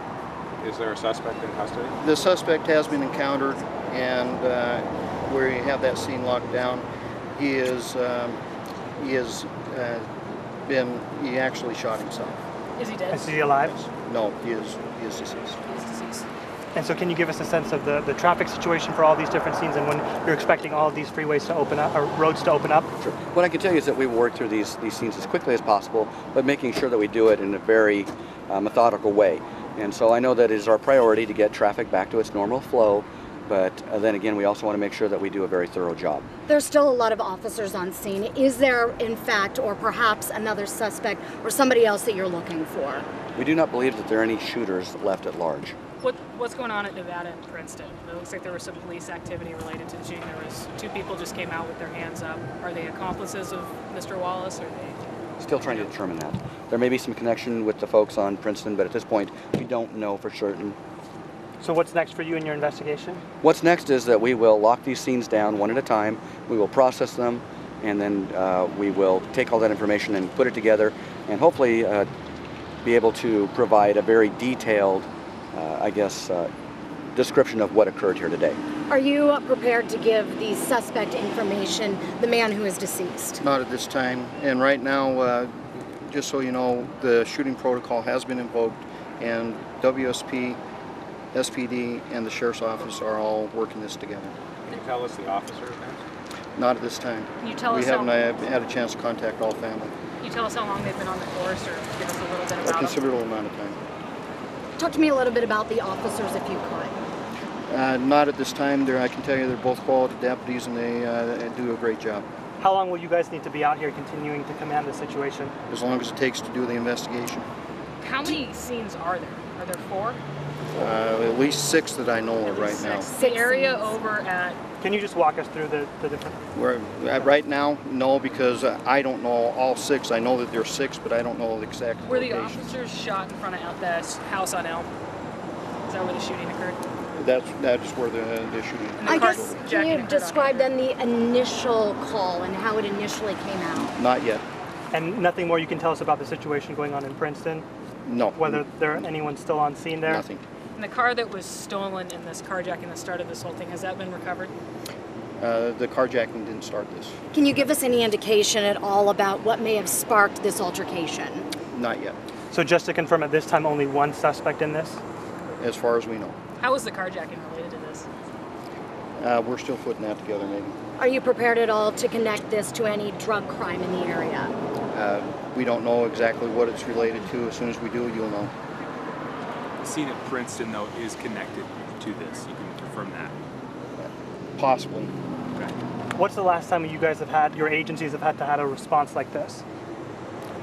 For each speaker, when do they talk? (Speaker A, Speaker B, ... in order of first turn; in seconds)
Speaker A: 0.6-1.9, 94.7-96.0
Speaker B: 2.0-8.4, 9.0-10.1, 10.7-12.4, 13.7-15.6, 83.4-85.5, 86.1-90.6, 91.3-94.3, 96.6-99.9, 102.6-103.8, 107.7-112.3, 115.7-117.5, 120.8-123.1, 126.5-132.7, 137.2-139.6, 143.9-144.4, 148.1-149.1, 150.0-150.4, 155.4-157.2, 161.6-162.2, 165.6-166.4, 169.2-170.8, 174.9-178.5, 184.6-185.1
Speaker C: 12.8-13.4, 15.7-16.3, 46.0-55.0, 97.4-98.2, 100.2-103.1, 118.0-120.2, 122.5-124.6, 132.1-134.9, 135.9-136.8, 139.0-140.7, 150.8-154.5, 166.6-168.1
Speaker D: 13.1-13.8, 16.8-22.9, 61.6-63.2, 112.6-115.5, 124.8-126.4, 144.9-147.7, 148.3-150.2, 162.5-165.0, 186.2-189.6
Speaker E: 23.0-36.3, 43.4-45.8, 55.4-60.8, 63.4-72.1, 72.8-76.5, 77.2-78.6
Speaker F: 36.5-43.1, 78.9-83.4, 104.8-107.0, 122.5-124.0, 139.1-143.9, 157.3-161.5, 171.0-174.5
Speaker G: 179.8-183.3